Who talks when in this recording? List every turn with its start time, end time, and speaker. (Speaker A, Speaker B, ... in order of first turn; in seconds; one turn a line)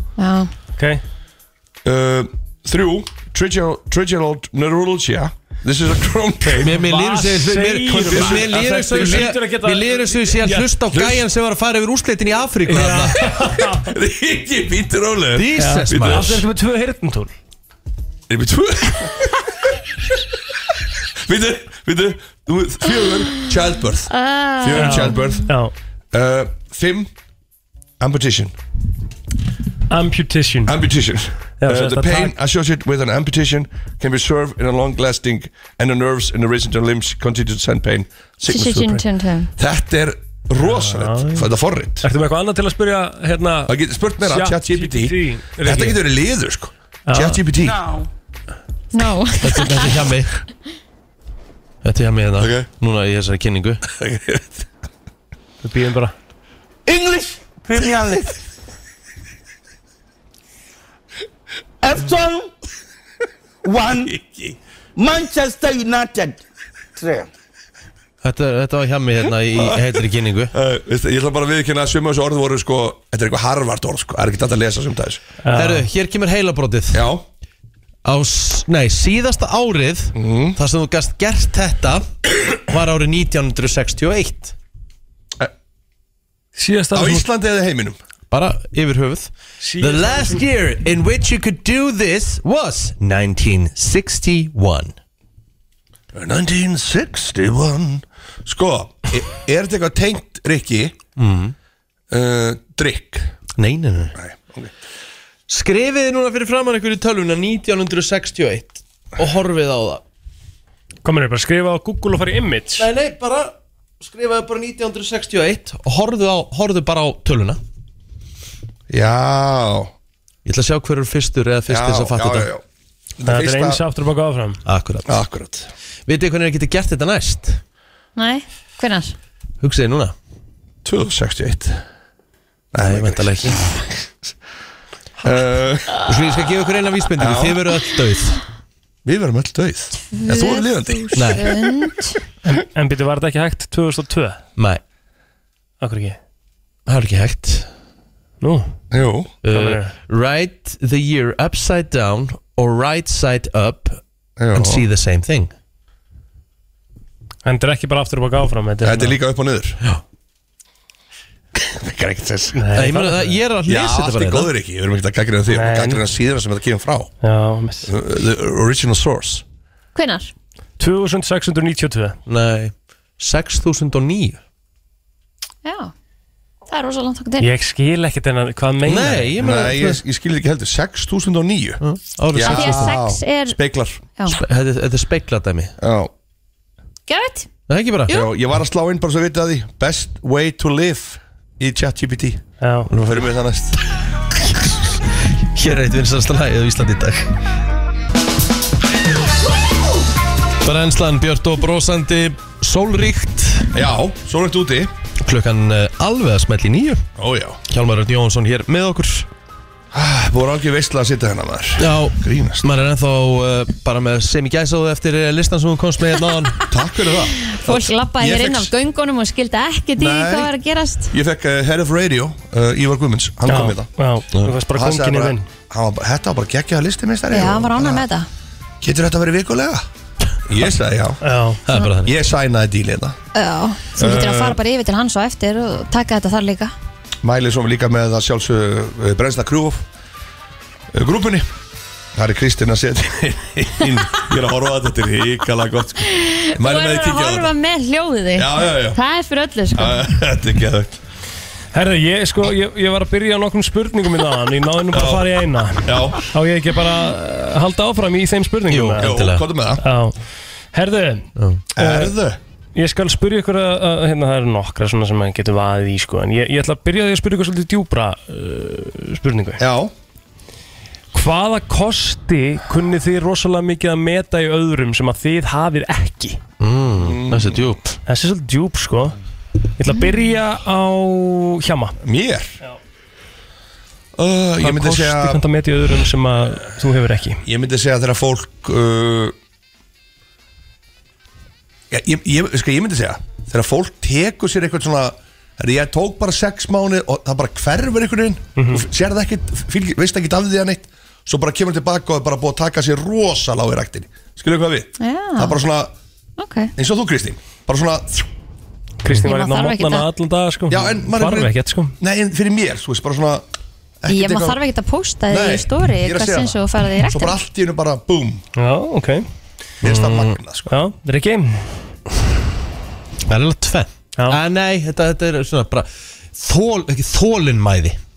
Speaker A: 0.2-0.5
Speaker B: 0.8-1.0
Speaker C: 1.8-6.8
Speaker D: 6.6-13.3
Speaker B: 6.7-10.7
Speaker C: 7.9-9.3
Speaker C: 10.9-11.2
Speaker B: 12.7-13.9
Speaker C: 13.8-16.4
Speaker D: 15.3-16.4
Speaker B: 15.5-17.3
Speaker C: 18.3-19.4
Speaker C: 21.2-25.5
Speaker A: 24.1-25.5
Speaker B: 24.7-25.7
Speaker C: 26.1-27.1
Speaker C: 28.0-28.5
Speaker B: 29.9-30.8
Speaker C: 30.6-39.0
Speaker B: 31.6-32.3
Speaker A: 38.5-39.5
Speaker C: 39.6-42.1
Speaker B: 40.5-41.5
Speaker B: 42.0-46.0
Speaker C: 43.7-47.8
Speaker B: 47.1-47.4
Speaker E: 47.6-48.0
Speaker A: 48.9-49.9
Speaker D: 49.4-50.4
Speaker D: 51.8-53.8
Speaker C: 52.4-52.7
Speaker C: 53.9-54.6
Speaker B: 55.6-56.1
Speaker E: 56.9-58.3
Speaker E: 61.8-62.5
Speaker E: 63.6-64.2
Speaker C: 64.0-64.5
Speaker E: 65.0-66.4
Speaker E: 67.0-67.3
Speaker D: 68.2-70.5
Speaker C: 69.5-70.0
Speaker C: 70.5-75.2
Speaker B: 75.4-75.8
Speaker D: 75.5-77.1
Speaker C: 76.9-77.2
Speaker D: 78.0-84.5
Speaker C: 80.1-80.6
Speaker B: 86.6-87.3
Speaker C: 86.9-88.0
Speaker D: 88.3-94.9
Speaker B: 89.6-90.4
Speaker C: 96.1-101.0
Speaker D: 101.2-101.5
Speaker C: 102.1-103.3
Speaker D: 103.6-104.1
Speaker C: 104.2-104.7
Speaker D: 105.5-110.0
Speaker B: 111.0-112.9
Speaker D: 112.8-117.6
Speaker C: 118.9-119.9
Speaker D: 120.4-122.5
Speaker C: 121.7-122.6
Speaker C: 123.2-123.8
Speaker B: 123.2-124.6
Speaker D: 124.7-125.2
Speaker C: 125.0-125.7
Speaker D: 126.0-127.6
Speaker A: 128.2-129.1
Speaker D: 129.6-130.2
Speaker C: 130.8-131.8
Speaker C: 132.7-133.8
Speaker D: 132.8-133.8
Speaker C: 135.2-136.0
Speaker D: 136.0-138.4
Speaker C: 137.2-137.6
Speaker C: 139.0-141.4
Speaker A: 140.1-142.2
Speaker D: 141.1-141.6
Speaker B: 142.4-144.4
Speaker D: 144.6-144.8
Speaker B: 145.8-146.2
Speaker D: 146.8-147.7
Speaker B: 148.4-148.7
Speaker C: 148.9-149.3
Speaker D: 149.4-154.0
Speaker B: 149.5-149.9
Speaker C: 154.4-154.8
Speaker D: 154.5-155.5
Speaker B: 157.4-159.2
Speaker C: 158.8-159.8
Speaker C: 161.5-162.6
Speaker B: 162.5-163.4
Speaker D: 162.7-164.5
Speaker C: 163.7-167.1
Speaker B: 165.5-166.0
Speaker B: 167.2-167.9
Speaker C: 167.8-169.4
Speaker A: 169.9-170.3
Speaker B: 170.8-172.2
Speaker D: 172.3-174.4
Speaker A: 175.6-175.9
Speaker A: 176.7-177.5
Speaker B: 177.4-179.3
Speaker D: 178.8-180.0
Speaker C: 179.4-181.8
Speaker D: 181.8-183.0
Speaker C: 182.3-184.0
Speaker A: 182.4-183.6
Speaker D: 184.3-185.7
Speaker C: 185.8-186.1
Speaker A: 187.1-187.5
Speaker D: 187.7-188.2
Speaker C: 188.1-192.4
Speaker B: 192.6-192.9
Speaker D: 192.9-193.3
Speaker C: 193.0-193.8
Speaker D: 194.3-197.4
Speaker D: 200.6-203.7
Speaker C: 203.7-204.9
Speaker D: 205.2-207.0
Speaker C: 207.2-207.6
Speaker D: 207.7-209.3
Speaker C: 209.9-212.7
Speaker D: 211.8-216.6
Speaker C: 216.7-218.7
Speaker A: 217.4-221.1
Speaker C: 220.0-220.5
Speaker C: 221.1-223.9
Speaker B: 223.4-225.5
Speaker C: 224.7-228.1
Speaker A: 227.3-228.3
Speaker C: 228.8-229.8
Speaker C: 230.5-231.2
Speaker B: 231.2-231.6
Speaker D: 231.7-232.1
Speaker C: 232.0-233.2
Speaker A: 233.3-236.7
Speaker C: 234.0-234.6
Speaker C: 237.2-239.8
Speaker C: 240.9-241.5
Speaker C: 242.1-247.5
Speaker A: 246.0-250.0
Speaker C: 248.3-249.0
Speaker C: 249.7-250.9
Speaker B: 251.7-259.2
Speaker C: 254.9-256.3
Speaker D: 258.7-259.5
Speaker C: 259.0-259.8
Speaker B: 259.8-260.2
Speaker B: 260.7-262.2
Speaker C: 261.7-262.4
Speaker B: 262.7-269.6
Speaker C: 269.6-269.9
Speaker B: 271.1-276.4
Speaker D: 276.6-277.9
Speaker C: 277.0-277.7
Speaker B: 278.1-279.1
Speaker B: 279.8-281.9
Speaker C: 282.0-282.6
Speaker C: 284.1-285.4
Speaker B: 284.6-287.4
Speaker C: 287.4-289.3
Speaker C: 291.9-305.9
Speaker B: 298.6-298.8
Speaker A: 305.0-305.6
Speaker A: 306.4-306.7
Speaker C: 306.8-308.2
Speaker B: 309.0-311.9
Speaker A: 309.1-310.1
Speaker C: 310.7-313.4
Speaker C: 314.0-314.6
Speaker A: 314.1-317.4
Speaker C: 315.3-318.4
Speaker B: 318.6-319.2
Speaker D: 319.8-320.4
Speaker C: 319.8-320.7
Speaker B: 320.7-321.7
Speaker D: 323.2-328.0